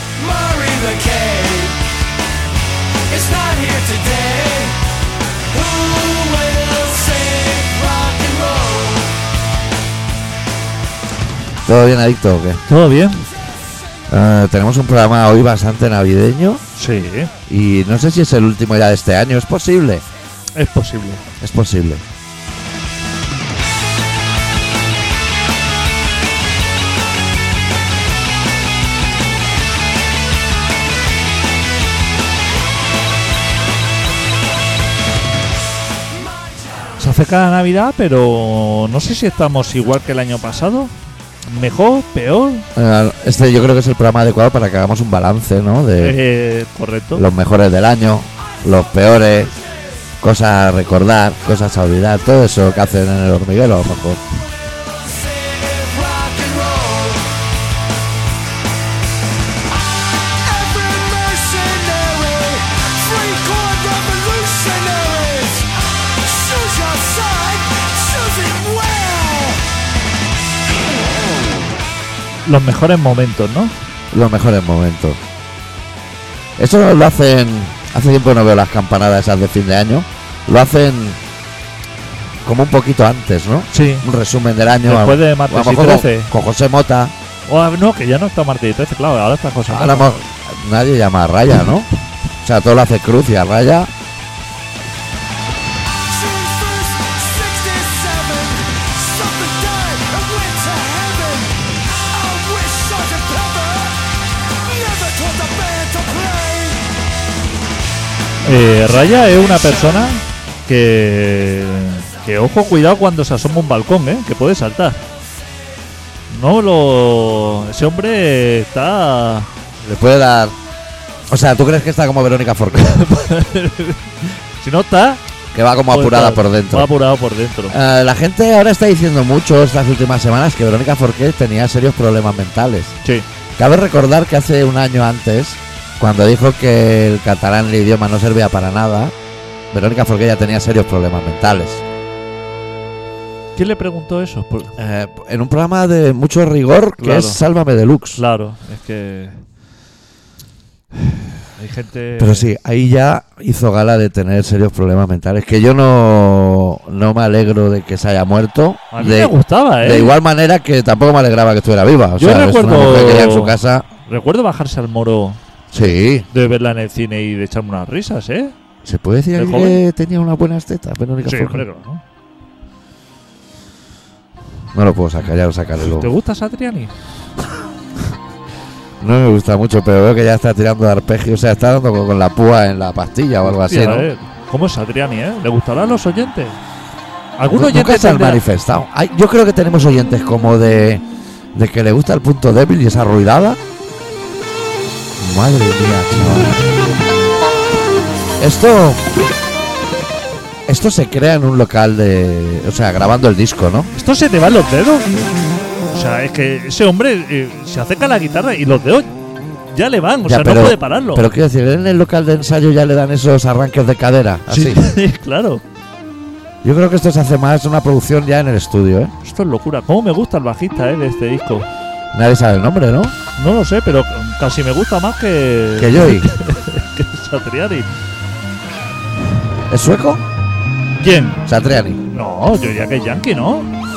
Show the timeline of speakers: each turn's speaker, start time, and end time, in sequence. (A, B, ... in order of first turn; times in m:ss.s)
0:00.2-0:01.8 A
0:03.1-0:04.8 A
0:05.5-0:09.1 A
0:11.6-0:12.6 B
0:12.7-0:13.3 C
0:14.1-0:16.6 B
0:16.8-0:17.3 C
0:17.5-0:20.0 B
0:20.5-0:21.2 C
0:21.4-0:22.0 B
0:37.0-0:40.9 C
0:41.5-0:42.7 C
0:42.8-0:46.2 B
0:46.0-0:47.3 C
0:47.2-0:49.5 B
0:50.2-0:54.2 B
0:54.8-0:57.4 A
0:59.7-1:09.6 A
1:12.5-1:13.7 C
1:14.1-1:15.2 B
1:16.6-1:21.2 B
1:22.4-1:27.1 B
1:23.7-1:24.1 C
1:24.8-1:26.3 C
1:27.5-1:30.2 C
1:29.7-1:31.9 B
1:32.4-1:33.9 B
1:35.9-1:46.9 A
1:48.4-1:55.0 C
1:56.3-1:59.5 C
1:59.8-2:00.6 B
2:01.3-2:03.0 B
2:02.7-2:05.2 C
2:05.5-2:06.9 B
2:05.9-2:07.8 C
2:07.7-2:13.0 B
2:13.6-2:19.1 B
2:19.7-2:21.8 B
2:23.6-2:24.8 C
2:24.8-2:28.2 B
2:27.0-2:27.4 C
2:28.2-2:29.4 C
2:31.0-2:32.5 C
2:32.2-2:43.9 B
2:38.9-2:40.2 C
2:42.2-2:48.6 C
2:45.7-2:46.3 B
2:48.8-2:51.7 B
2:49.4-2:49.8 C
2:51.2-2:52.0 C
2:54.7-2:56.1 B
2:55.8-2:56.9 C
2:59.0-3:04.1 B
3:03.4-3:06.6 C
3:07.4-3:08.4 C
3:07.5-3:13.6 B
3:15.2-3:16.6 B
3:18.4-3:19.0 B
3:20.7-3:23.9 B
3:23.9-3:25.1 C
3:25.9-3:29.1 C
3:29.7-3:31.3 C
3:30.2-3:34.8 B
3:34.5-3:35.6 C
3:36.6-3:39.1 B
3:39.2-3:41.7 C
3:42.1-3:43.2 B
3:43.4-3:47.9 C
3:45.8-3:46.3 B
3:49.7-3:50.2 B
3:51.0-3:51.4 C
3:51.4-3:52.0 B
3:52.1-3:53.7 C